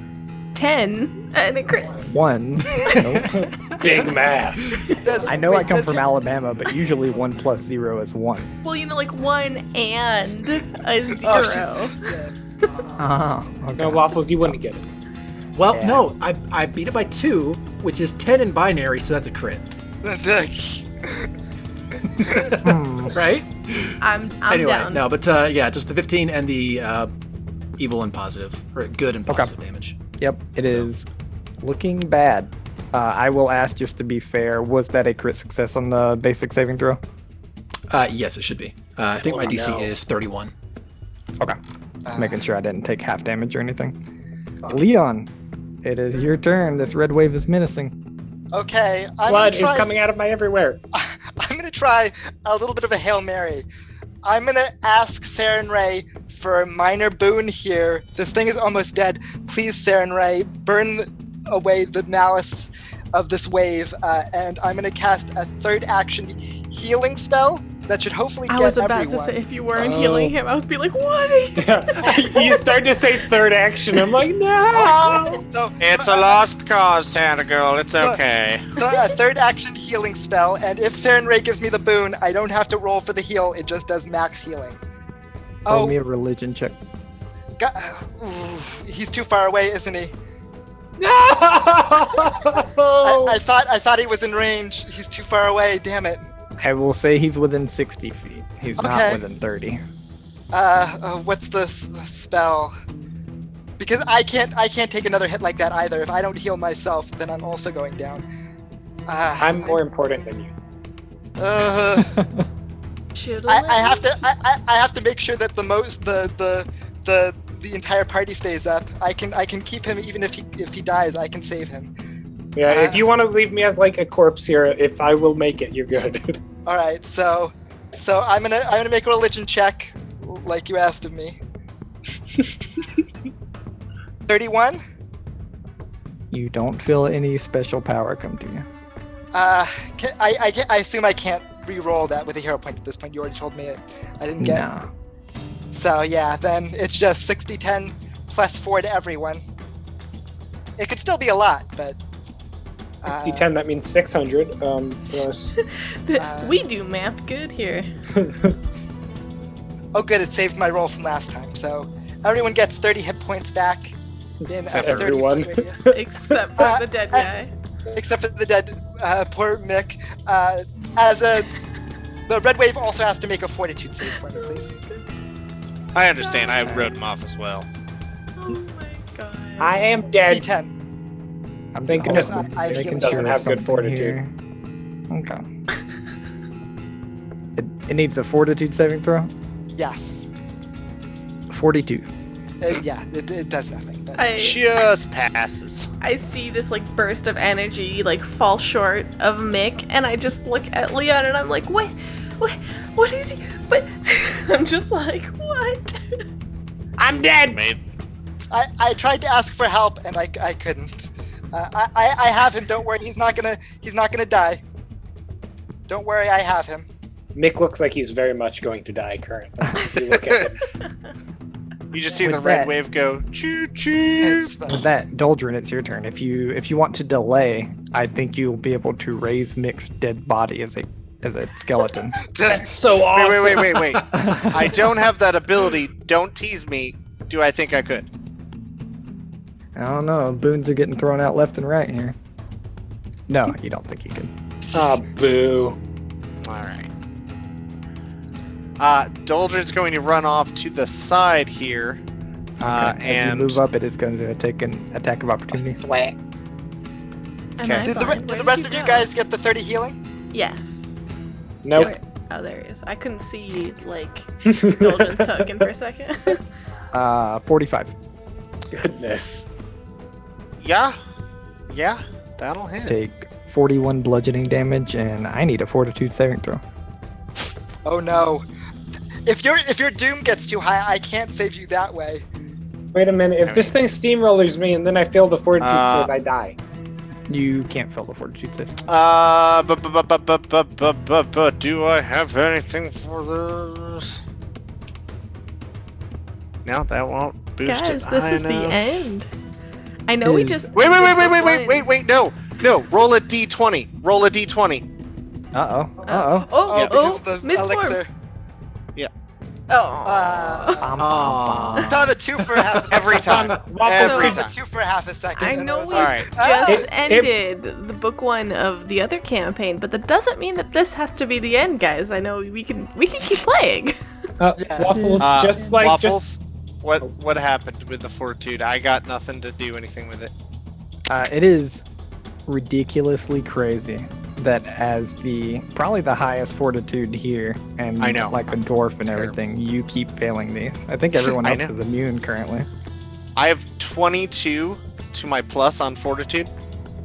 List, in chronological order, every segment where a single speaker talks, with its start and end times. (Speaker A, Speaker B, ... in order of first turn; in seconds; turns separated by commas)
Speaker A: 0.5-2.1, Speaker B: 2.0-3.4, Speaker C: 3.0-3.8, Speaker D: 3.8-4.7, Speaker C: 4.6-4.9, Speaker E: 4.9-6.1, Speaker B: 5.2-8.5, Speaker A: 8.6-12.1, Speaker E: 11.2-12.3, Speaker B: 13.0-14.6, Speaker D: 13.8-14.9, Speaker C: 15.6-19.7, Speaker B: 15.7-16.1, Speaker E: 20.0-21.3, Speaker E: 22.1-22.5, Speaker C: 22.2-27.1, Speaker B: 22.6-23.2, Speaker A: 24.0-25.1, Speaker C: 27.8-30.0, Speaker B: 30.2-31.1, Speaker B: 31.6-37.0, Speaker C: 37.9-40.5, Speaker D: 39.2-39.9, Speaker E: 42.1-42.4, Speaker B: 42.1-44.0, Speaker B: 44.7-45.3, Speaker B: 45.8-47.9, Speaker E: 48.5-50.0, Speaker D: 49.3-50.8, Speaker E: 51.0-53.7, Speaker E: 54.2-69.4, Speaker A: 68.5-72.7, Speaker D: 69.8-70.3, Speaker D: 71.6-75.4, Speaker E: 74.7-76.4, Speaker F: 75.8-78.7, Speaker E: 78.8-84.8, Speaker E: 85.7-86.0, Speaker B: 85.7-86.8, Speaker E: 87.6-90.1, Speaker D: 91.0-93.4, Speaker E: 93.0-96.3, Speaker B: 96.6-99.8, Speaker E: 98.8-99.2, Speaker E: 100.5-102.7, Speaker E: 103.8-108.2, Speaker E: 109.1-109.8, Speaker D: 109.4-110.5, Speaker E: 111.4-112.2, Speaker B: 112.0-112.4, Speaker A: 113.2-114.1, Speaker E: 113.5-121.9, Speaker D: 122.6-126.4, Speaker E: 122.7-123.1, Speaker E: 126.7-131.4, Speaker E: 134.3-134.8, Speaker B: 136.3-138.7, Speaker E: 139.3-144.7, Speaker B: 144.4-144.9, Speaker E: 145.7-149.4, Speaker E: 150.8-152.0, Speaker E: 153.0-153.5, Speaker D: 153.1-155.5, Speaker A: 155.6-157.9, Speaker E: 156.2-156.6, Speaker D: 158.2-158.6, Speaker E: 159.9-163.9, Speaker E: 164.5-165.9, Speaker F: 164.7-165.1, Speaker D: 164.7-166.4, Speaker A: 165.9-167.5, Speaker E: 166.6-167.3, Speaker E: 167.9-171.5, Speaker E: 172.3-174.7, Speaker A: 174.3-175.1, Speaker F: 175.9-177.7, Speaker A: 176.2-176.7, Speaker B: 176.6-176.9, Speaker A: 178.4-179.8, Speaker D: 179.6-180.5, Speaker E: 180.3-180.7, Speaker B: 181.7-184.3, Speaker D: 181.9-184.2, Speaker E: 182.1-183.5, Speaker B: 185.1-185.4, Speaker B: 187.6-189.3, Speaker E: 189.8-190.3, Speaker B: 191.5-192.1, Speaker E: 192.6-194.3, Speaker A: 194.2-194.6, Speaker F: 194.4-195.9, Speaker A: 196.0-206.2, Speaker D: 207.0-207.6, Speaker F: 207.5-207.8, Speaker E: 208.5-210.9, Speaker E: 211.5-214.6, Speaker E: 215.9-216.9, Speaker D: 217.3-220.6, Speaker F: 220.0-220.5, Speaker F: 221.9-224.5, Speaker B: 222.2-222.7, Speaker E: 224.2-224.8, Speaker B: 224.7-232.2, Speaker E: 232.3-232.7, Speaker D: 232.5-233.8, Speaker F: 233.1-238.1, Speaker C: 233.9-234.5, Speaker B: 234.1-234.8, Speaker B: 239.8-242.2, Speaker B: 243.3-244.3, Speaker D: 244.7-245.8, Speaker F: 246.4-246.9, Speaker F: 248.8-252.0, Speaker B: 252.6-255.8, Speaker F: 252.6-253.6, Speaker D: 255.8-256.1, Speaker A: 257.6-259.1, Speaker F: 257.6-257.9, Speaker E: 257.8-260.0, Speaker A: 260.3-261.0, Speaker D: 261.6-261.9, Speaker A: 261.8-266.4, Speaker D: 264.5-265.6, Speaker B: 266.9-267.9, Speaker D: 268.7-269.5, Speaker F: 270.6-271.0, Speaker F: 271.7-273.0, Speaker B: 272.9-276.6, Speaker E: 277.9-278.4, Speaker E: 279.3-282.2, Speaker D: 282.9-286.6, Speaker F: 283.4-283.7, Speaker F: 285.6-286.1, Speaker B: 287.3-288.8, Speaker F: 288.9-294.2, Speaker F: 296.6-299.1, Speaker A: 297.6-299.3, Speaker A: 300.1-301.9, Speaker B: 300.2-300.7, Speaker F: 300.8-304.9, Speaker B: 305.5-306.5, Speaker A: 306.1-308.0, Speaker E: 306.7-308.1, Speaker A: 309.7-310.9, Speaker E: 310.1-311.0, Speaker B: 310.8-312.1, Speaker C: 311.0-313.7, Speaker E: 311.9-316.9, Speaker F: 312.9-314.5, Speaker D: 313.1-314.5, Speaker A: 314.0-314.4, Speaker A: 315.4-324.0, Speaker F: 315.9-316.3, Speaker D: 316.6-317.3, Speaker D: 324.4-326.3, Speaker E: 324.6-325.0, Speaker B: 324.9-325.3, Speaker F: 325.2-330.3, Speaker B: 331.1-331.8, Speaker B: 332.5-342.7, Speaker F: 338.0-339.3, Speaker F: 341.2-341.7, Speaker F: 343.4-346.5